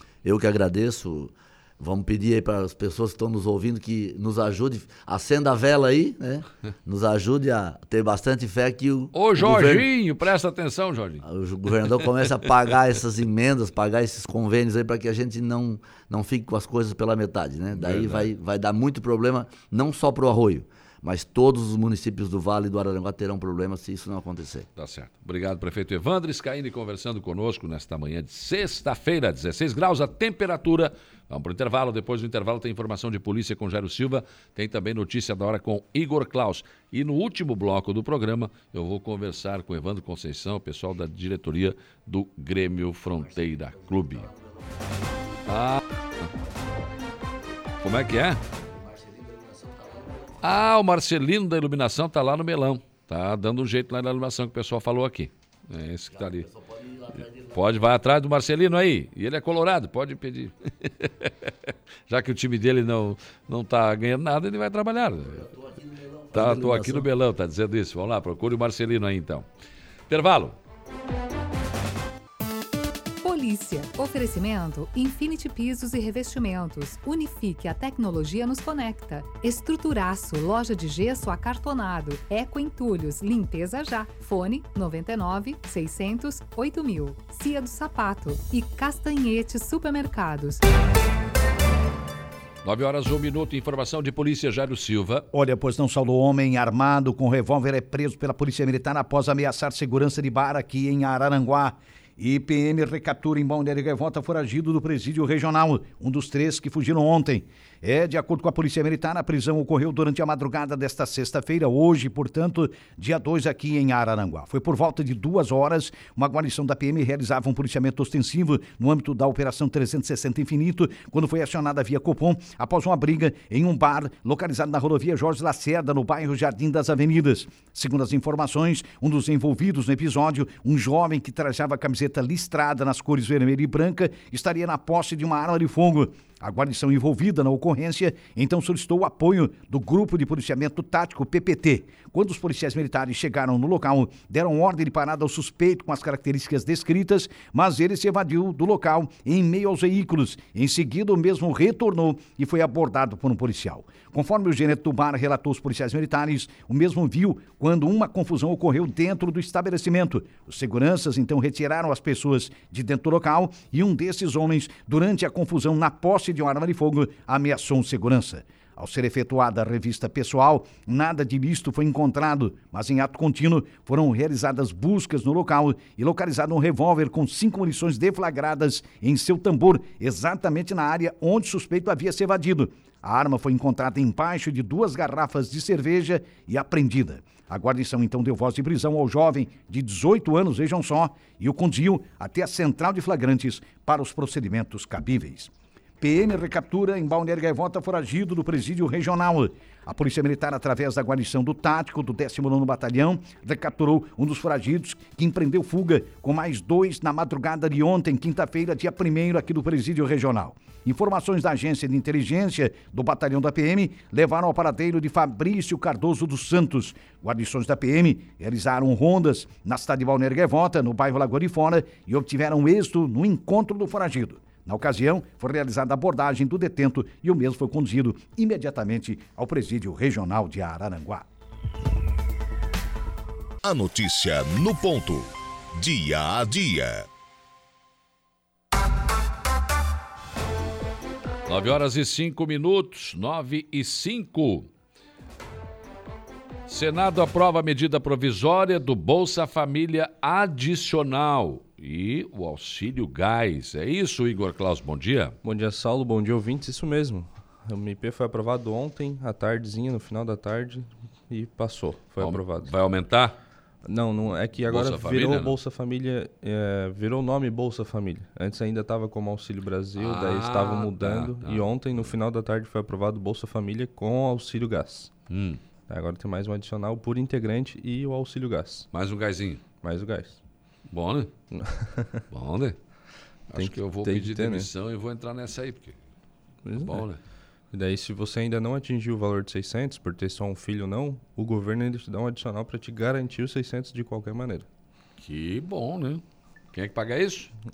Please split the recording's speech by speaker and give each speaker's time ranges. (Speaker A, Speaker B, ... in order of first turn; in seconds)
Speaker A: 0.2-9.9, 11.2-24.7, 43.2-45.0, 46.3-47.4, 48.5-50.7, 56.1-57.6, 65.2-67.1
Speaker B: 9.1-11.2, 17.7-18.3, 24.8-44.3, 45.5-45.8, 47.8-48.4, 50.4-56.5, 57.5-65.5, 66.3-69.5, 70.1-70.6, 92.6-95.3, 241.5-244.7, 246.7-255.4, 262.2-263.4, 264.6-265.6, 270.0-272.1, 275.3-275.6, 278.9-279.6, 280.9-281.3, 282.3-282.9, 283.5-286.0, 286.8-287.2, 295.2-297.5
Speaker C: 73.2-90.6
Speaker D: 95.3-231.3
Speaker E: 233.6-237.1
Speaker F: 255.4-262.7, 263.8-275.1, 275.9-278.9, 279.8-280.4, 281.5-282.2, 283.6-284.7, 286.6-287.1, 287.7-294.7